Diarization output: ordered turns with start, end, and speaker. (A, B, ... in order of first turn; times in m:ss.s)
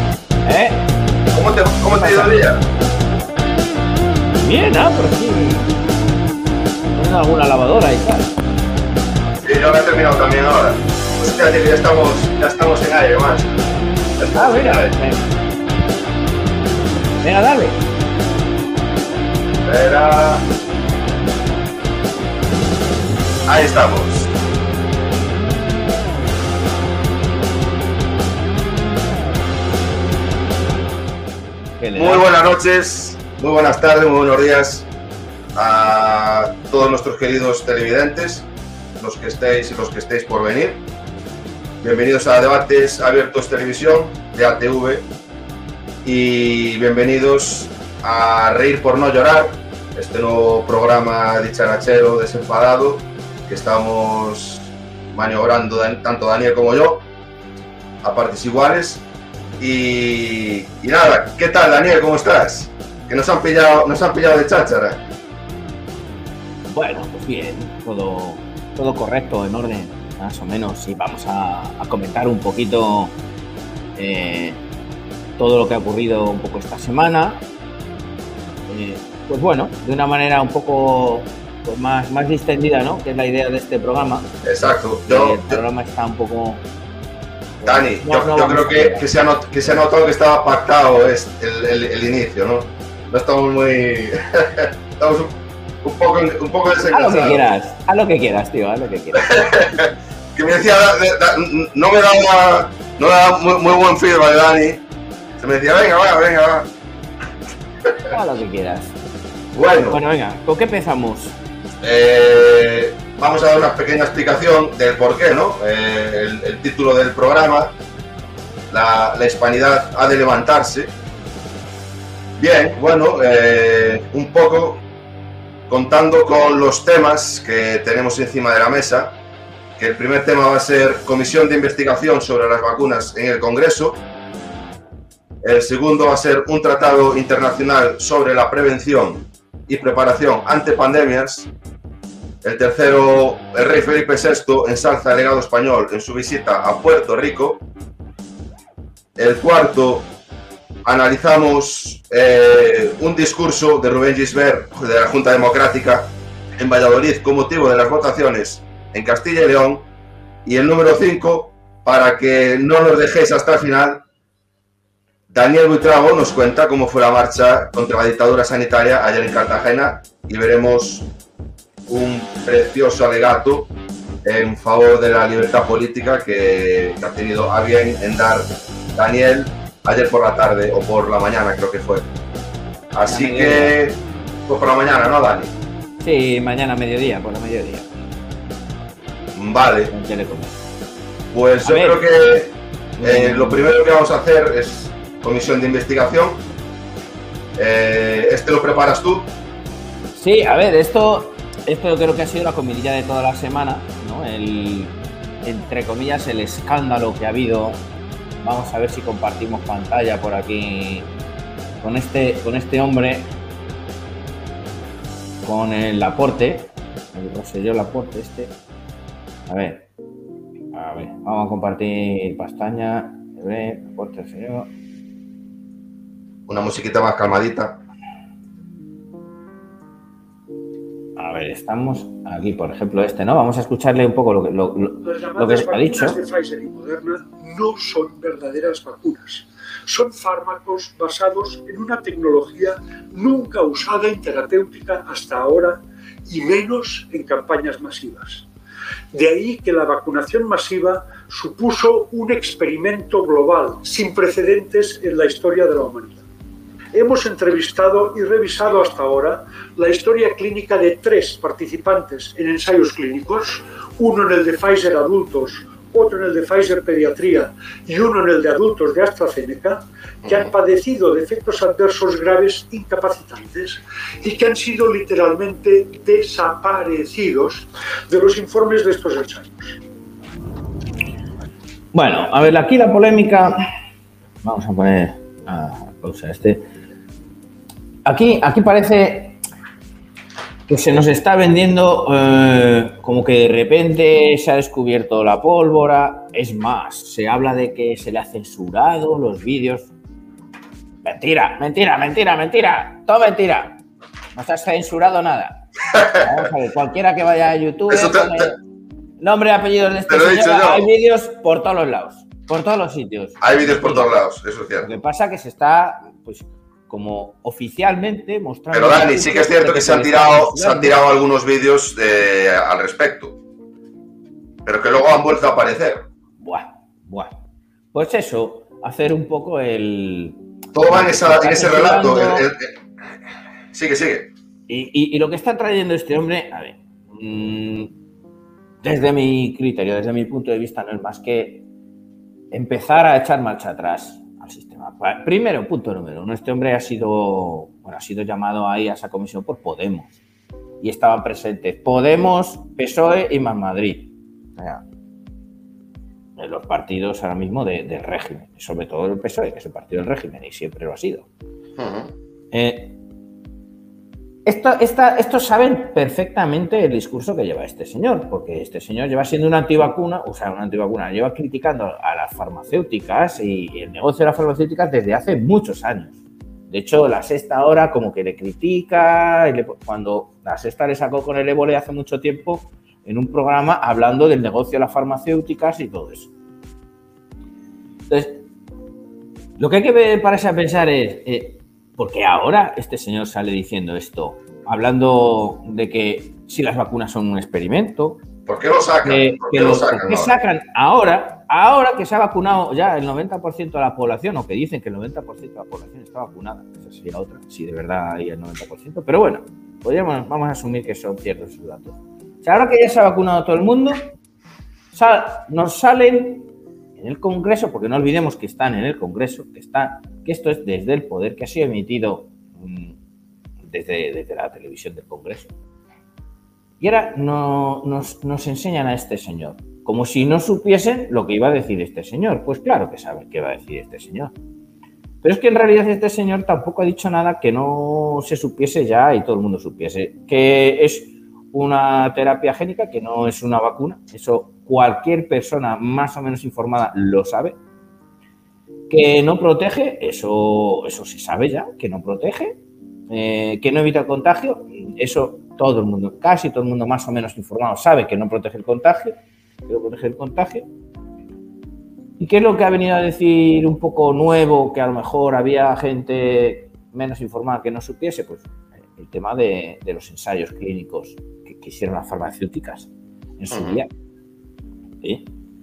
0:00.4-0:00.8 A
0:01.3-0:02.6 B
0:01.9-0:02.5 A
0:04.4-0:05.7 A
0:07.0-0:08.3 A
0:09.4-0:13.6 B
0:14.2-0:15.0 B
0:14.3-0:15.3 A
0:17.2-0:17.8 A
0:19.6-0:20.4 B
0:23.5-0:24.3 B
0:31.8-0:32.3 A
0:32.0-0:34.9 B
0:35.6-0:40.8 B
0:41.8-0:45.1 B
0:46.0-0:57.1 B
0:58.0-0:59.0 B
0:59.6-1:05.0 B
1:06.7-1:13.2 A
1:14.0-1:14.6 A
1:15.4-1:17.4 A
1:18.7-1:24.3 A
1:24.4-1:25.6 B
1:25.1-1:26.6 A
1:27.6-1:29.1 A
1:27.6-1:37.4 B
1:36.9-1:39.6 A
1:39.2-1:44.8 B
1:45.4-1:46.7 B
1:47.9-1:48.2 B
1:48.1-1:49.0 A
1:49.5-1:50.0 B
1:49.9-1:51.4 A
1:51.8-1:57.7 B
1:58.7-2:00.9 B
2:02.4-2:04.8 B
2:05.7-2:09.2 B
2:09.8-2:14.0 B
2:15.4-2:21.5 B
2:22.4-2:27.7 B
2:29.2-2:30.1 B
2:30.8-2:39.9 B
2:40.4-2:44.0 B
2:45.3-2:51.1 B
2:51.9-2:53.7 B
2:54.2-3:02.1 B
3:02.9-3:05.5 B
3:03.1-3:03.8 A
3:06.0-3:07.9 A
3:09.3-3:09.9 B
3:09.9-3:10.6 A
3:11.3-3:16.4 B
3:11.6-3:12.0 A
3:13.0-3:13.6 A
3:17.6-3:19.3 B
3:20.1-3:27.8 A
3:28.4-3:31.1 A
3:31.8-3:33.3 A
3:35.4-3:38.5 A
3:39.5-3:39.9 A
3:40.7-3:44.7 A
3:46.5-3:47.8 B
3:51.2-3:56.2 A
3:55.0-4:08.5 C
4:09.1-4:16.2 C
4:16.9-4:39.8 C
4:30.2-4:30.5 B
4:41.9-4:43.6 A
4:44.4-4:46.7 A
4:48.0-4:49.4 A
4:50.7-4:59.9 A
5:01.0-5:03.8 A
5:04.3-5:08.6 A
5:07.9-5:08.6 B
5:09.2-5:14.1 A
5:10.1-5:10.9 B
5:13.4-5:14.9 B
5:14.8-5:21.0 A
5:18.7-5:23.4 B
5:24.6-5:26.1 B
5:26.4-5:27.4 A
5:27.9-5:32.5 A
5:30.7-5:32.8 B
5:33.7-5:34.3 B
5:34.7-5:37.9 A
5:38.8-5:41.7 A
5:42.5-5:50.2 A
5:50.8-5:54.8 A
5:56.4-6:01.3 A
6:01.8-6:02.1 B
6:02.5-6:03.0 A
6:04.5-6:26.3 A
6:28.1-6:28.4 A
6:29.6-6:38.2 A
6:38.5-6:40.4 B
6:39.0-6:54.1 A
6:54.9-7:03.0 A
7:03.6-7:05.5 A
7:06.8-7:14.3 A
7:15.2-7:27.6 A
7:28.9-7:40.7 A
7:42.2-7:53.9 A
7:53.5-7:53.8 B
7:55.0-7:55.3 A